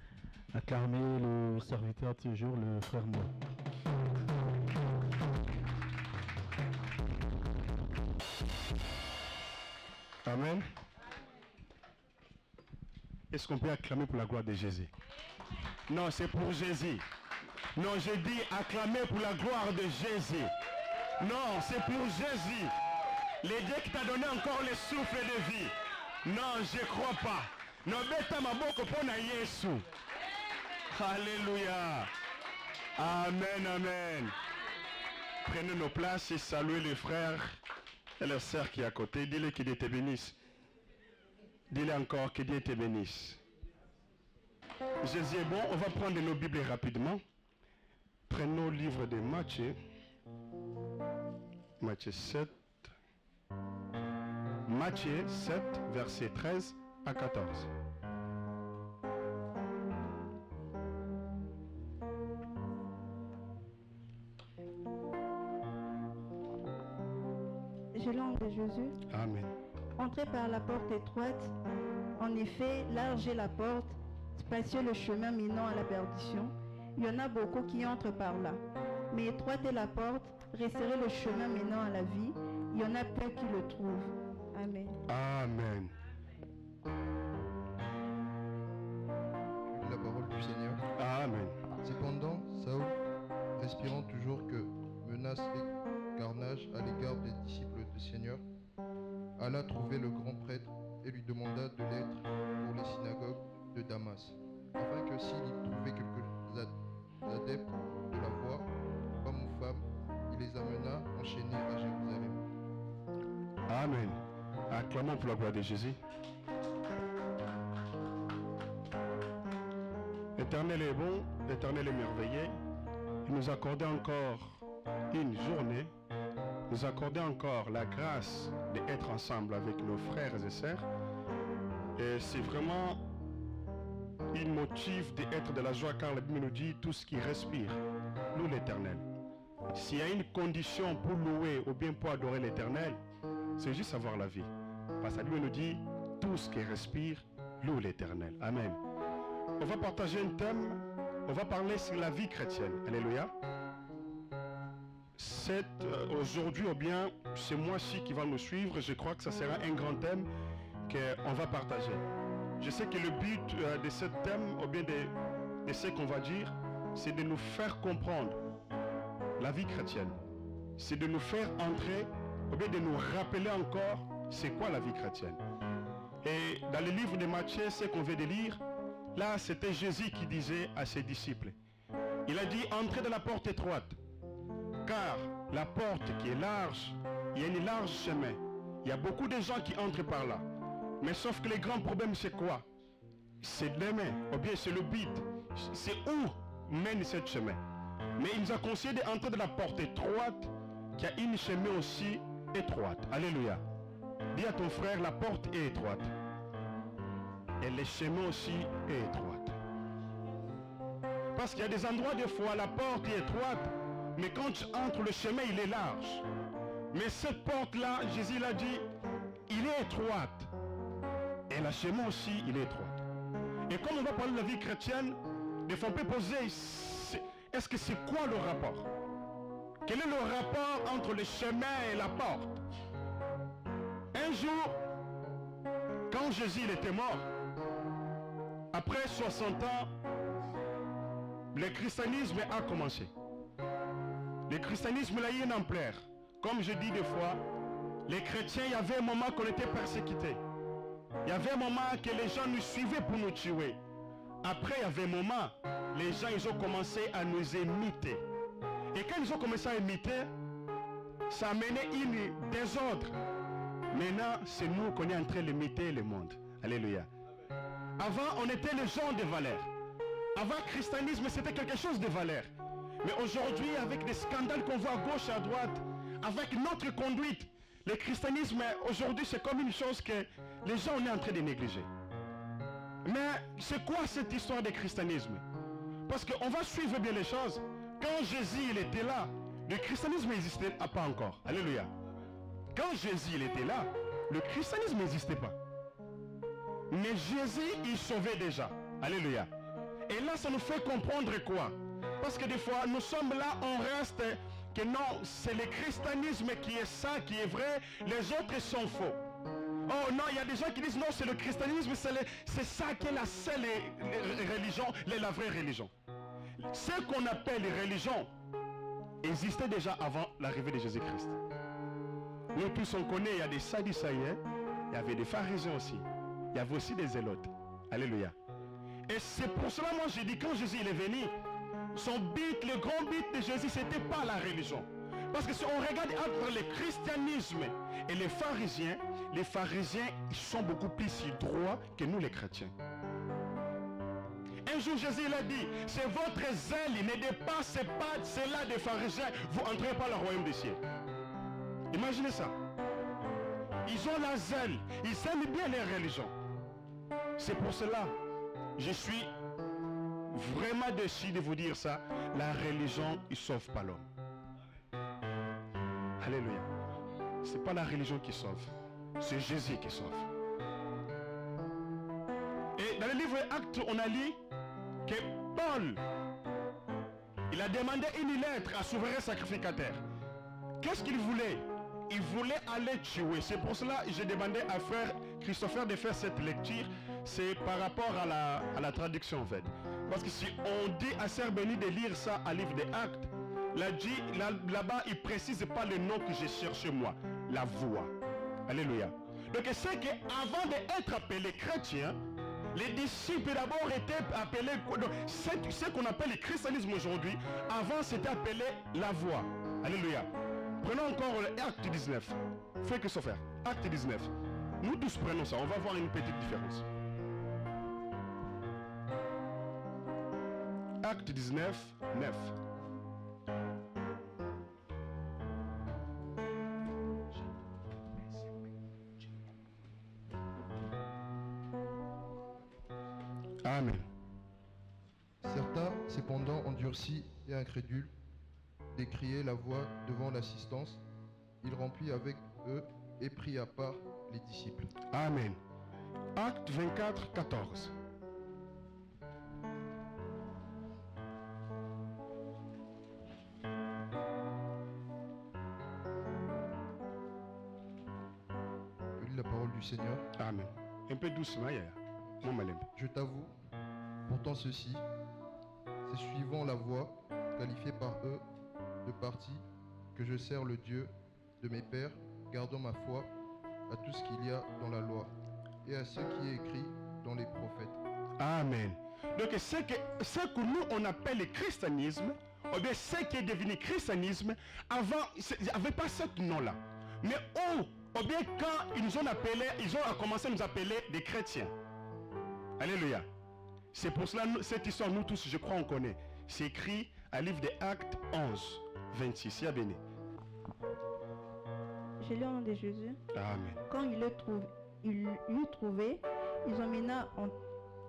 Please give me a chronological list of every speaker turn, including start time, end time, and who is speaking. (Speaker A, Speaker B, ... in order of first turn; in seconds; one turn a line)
Speaker A: 0.5-3.3
Speaker B: 10.2-10.6
Speaker B: 13.3-14.9
Speaker B: 15.9-17.0
Speaker B: 17.8-20.5
Speaker B: 21.2-22.7
Speaker B: 23.4-29.8
Speaker B: 30.9-32.1
Speaker B: 33.0-34.4
Speaker B: 35.4-37.6
Speaker B: 38.2-40.4
Speaker B: 41.7-43.4
Speaker B: 45.0-47.2
Speaker B: 48.3-49.8
Speaker B: 51.8-52.9
Speaker B: 54.7-57.7
Speaker C: 67.9-69.0
Speaker B: 69.1-69.5
Speaker C: 70.0-71.6
Speaker C: 72.2-85.0
Speaker B: 85.1-85.9
Speaker D: 89.7-90.8
Speaker B: 91.0-91.6
Speaker D: 91.8-93.0
Speaker D: 93.6-98.4
Speaker D: 99.4-108.7
Speaker D: 109.2-112.5
Speaker B: 113.7-114.2
Speaker B: 114.7-116.0
Speaker B: 120.4-122.5
Speaker B: 123.2-125.9
Speaker B: 126.7-130.9
Speaker B: 132.0-133.0
Speaker B: 134.3-137.8
Speaker B: 138.3-139.1
Speaker B: 139.7-143.0
Speaker B: 143.6-144.5
Speaker B: 145.0-148.8
Speaker B: 149.6-153.3
Speaker B: 155.2-160.3
Speaker B: 160.9-162.0
Speaker B: 162.6-168.4
Speaker B: 169.4-170.2
Speaker B: 170.8-175.4
Speaker B: 176.2-178.6
Speaker B: 179.1-181.6
Speaker B: 182.3-184.0
Speaker B: 184.8-190.4
Speaker B: 191.0-192.7
Speaker B: 193.4-197.6
Speaker B: 198.2-203.6
Speaker B: 204.3-206.1
Speaker B: 207.6-209.6
Speaker B: 211.3-216.2
Speaker B: 216.9-218.9
Speaker B: 219.5-220.5
Speaker B: 221.5-223.0
Speaker B: 223.7-228.9
Speaker B: 229.8-232.6
Speaker B: 234.1-234.8
Speaker B: 236.1-237.3
Speaker B: 238.7-239.9
Speaker B: 241.5-243.1
Speaker B: 244.5-247.4
Speaker B: 248.1-250.4
Speaker B: 251.2-253.8
Speaker B: 254.4-258.2
Speaker B: 258.9-260.3
Speaker B: 261.3-263.2
Speaker B: 263.9-267.1
Speaker B: 268.0-269.7
Speaker B: 270.4-272.5
Speaker B: 273.0-281.9
Speaker B: 283.0-285.4
Speaker B: 286.1-291.9
Speaker B: 292.7-295.6
Speaker B: 296.9-299.5
Speaker B: 300.1-309.2
Speaker B: 309.9-315.9
Speaker B: 316.6-318.3
Speaker B: 319.2-321.4
Speaker B: 322.5-328.4
Speaker B: 329.1-331.3
Speaker B: 331.9-342.7
Speaker B: 344.6-350.8
Speaker B: 351.9-352.6
Speaker B: 353.9-356.3
Speaker B: 357.4-358.1
Speaker B: 358.8-359.3
Speaker B: 360.3-364.1
Speaker B: 366.2-366.7
Speaker B: 367.4-370.3
Speaker B: 372.8-374.4
Speaker B: 375.1-376.0
Speaker B: 377.5-380.0
Speaker B: 380.8-398.1
Speaker B: 398.7-402.2
Speaker B: 402.7-410.3
Speaker B: 410.8-416.9
Speaker B: 421.0-422.6
Speaker B: 433.6-434.1
Speaker D: 435.4-438.1
Speaker D: 438.9-441.0
Speaker D: 441.6-444.9
Speaker B: 445.1-445.6
Speaker B: 446.4-447.9
Speaker D: 459.2-460.3
Speaker B: 460.4-462.9
Speaker D: 462.9-463.5
Speaker D: 464.3-465.0
Speaker D: 466.1-468.4
Speaker D: 469.0-473.3
Speaker D: 473.9-475.3
Speaker D: 475.8-478.0
Speaker B: 478.4-491.7
Speaker B: 492.8-493.3
Speaker B: 493.9-500.0
Speaker C: 502.2-503.2
Speaker B: 503.3-503.8
Speaker C: 503.9-507.6